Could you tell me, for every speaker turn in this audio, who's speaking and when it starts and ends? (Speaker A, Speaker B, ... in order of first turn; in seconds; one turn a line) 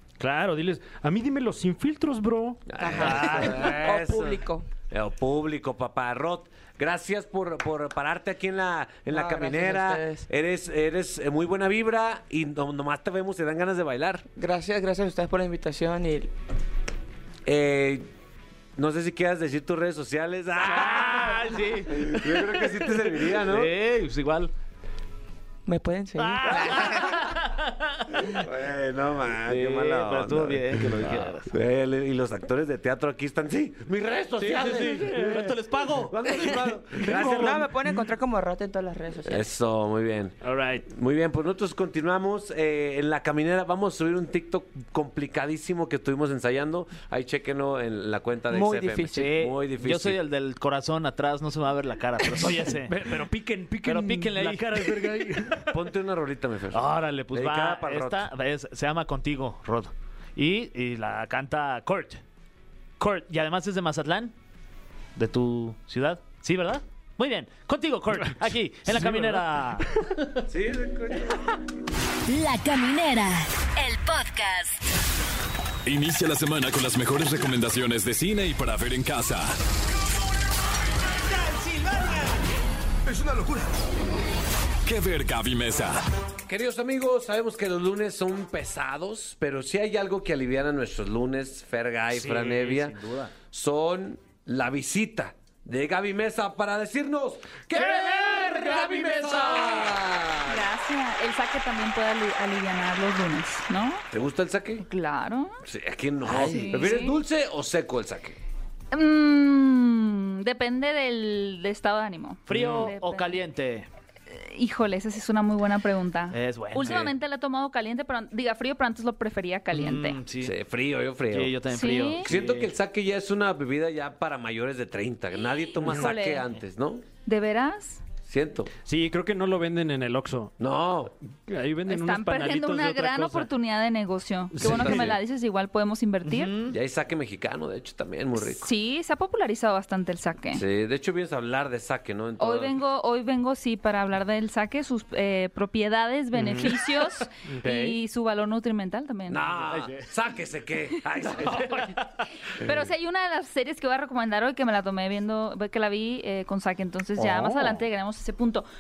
Speaker A: 0.2-3.9
Speaker B: 2.7-14.2
Speaker C: 2.8-4.7
Speaker C: 9.1-10.3
Speaker C: 14.4-16.3
Speaker B: 17.5-18.1
Speaker B: 18.8-23.7
Speaker D: 20.6-24.5
Speaker C: 25.7-27.0
Speaker A: 26.2-27.1
Speaker D: 26.4-28.2
Speaker B: 28.3-35.4
Speaker D: 29.5-31.5
Speaker D: 34.4-36.3
Speaker A: 34.8-35.5
Speaker B: 36.1-37.7
Speaker C: 36.4-39.5
Speaker A: 37.0-37.6
Speaker B: 39.2-50.2
Speaker A: 40.4-40.9
Speaker C: 48.5-49.3
Speaker D: 49.1-53.0
Speaker A: 52.4-55.8
Speaker D: 53.8-55.0
Speaker B: 55.7-58.3
Speaker D: 56.7-62.2
Speaker D: 63.0-64.3
Speaker D: 65.2-70.0
Speaker A: 68.9-69.4
Speaker B: 70.5-71.5
Speaker E: 72.3-74.9
Speaker F: 75.8-79.5
Speaker D: 81.4-82.2
Speaker F: 84.8-86.0
Speaker B: 86.5-93.0
Speaker D: 92.1-93.3
Speaker B: 93.5-100.7
Speaker G: 100.4-104.0
Speaker B: 104.1-104.8
Speaker G: 104.8-105.6
Speaker B: 105.6-108.4
Speaker D: 106.2-106.9
Speaker G: 106.4-107.2
Speaker G: 108.9-113.4
Speaker D: 112.5-113.9
Speaker A: 112.5-112.9
Speaker G: 114.3-120.2
Speaker D: 116.3-117.1
Speaker B: 116.8-117.1
Speaker D: 119.7-120.6
Speaker B: 120.4-121.6
Speaker D: 121.3-122.7
Speaker G: 121.7-122.3
Speaker B: 122.2-127.0
Speaker G: 125.8-126.5
Speaker G: 127.2-128.0
Speaker B: 128.2-128.7
Speaker A: 128.9-130.5
Speaker B: 130.6-131.1
Speaker A: 131.5-133.5
Speaker G: 131.9-136.6
Speaker A: 134.5-135.2
Speaker B: 134.6-135.2
Speaker D: 136.3-136.8
Speaker B: 136.7-138.7
Speaker G: 138.4-140.6
Speaker B: 140.5-142.8
Speaker G: 142.4-149.5
Speaker A: 146.3-148.0
Speaker B: 149.3-152.0
Speaker D: 149.7-150.1
Speaker D: 151.4-152.0
Speaker G: 152.5-158.7
Speaker A: 157.2-157.9